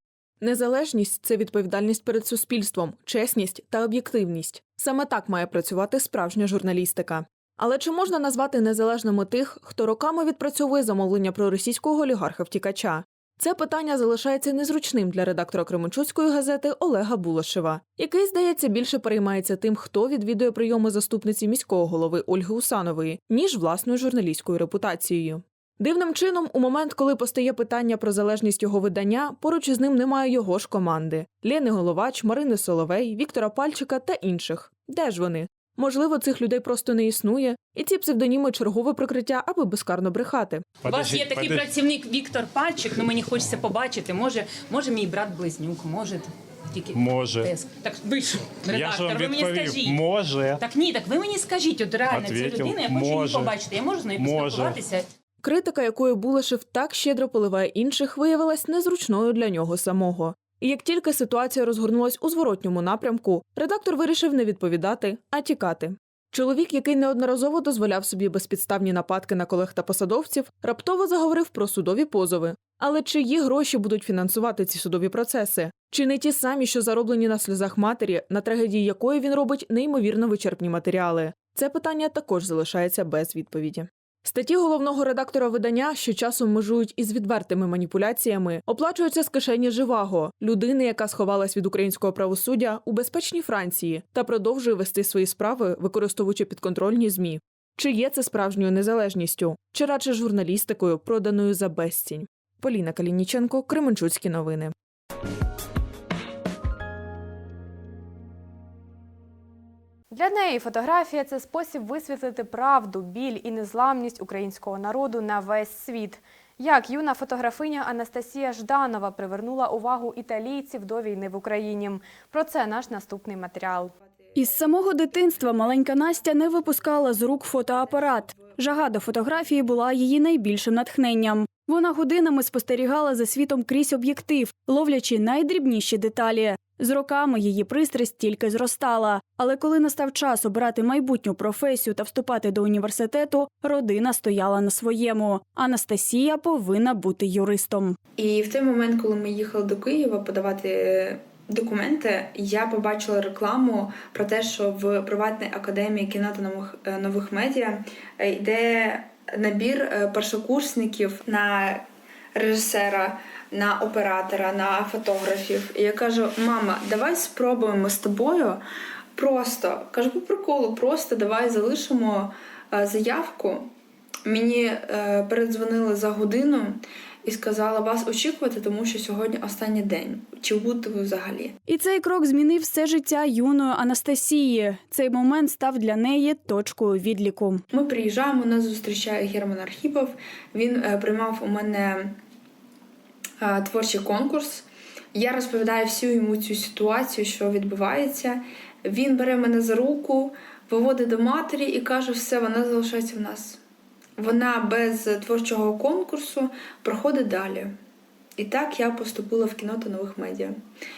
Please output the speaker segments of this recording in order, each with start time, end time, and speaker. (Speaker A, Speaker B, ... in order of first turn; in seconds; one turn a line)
Speaker A: 0.4-40.8
Speaker B: 40.8-41.7
Speaker C: 40.8-50.1
Speaker B: 47.0-47.5
Speaker B: 48.7-50.6
Speaker C: 50.6-55.1
Speaker B: 52.1-53.5
Speaker B: 54.2-54.8
Speaker A: 55.4-104.7
Speaker D: 110.1-123.9
Speaker E: 124.3-148.0
Speaker F: 148.2-161.8
Speaker F: 162.3-168.6
Speaker F: 169.2-173.7
Speaker F: 174.3-181.6
Speaker E: 181.7-187.6
Speaker F: 187.7-192.2
Speaker F: 193.4-203.6
Speaker F: 204.2-207.7
Speaker F: 208.4-210.6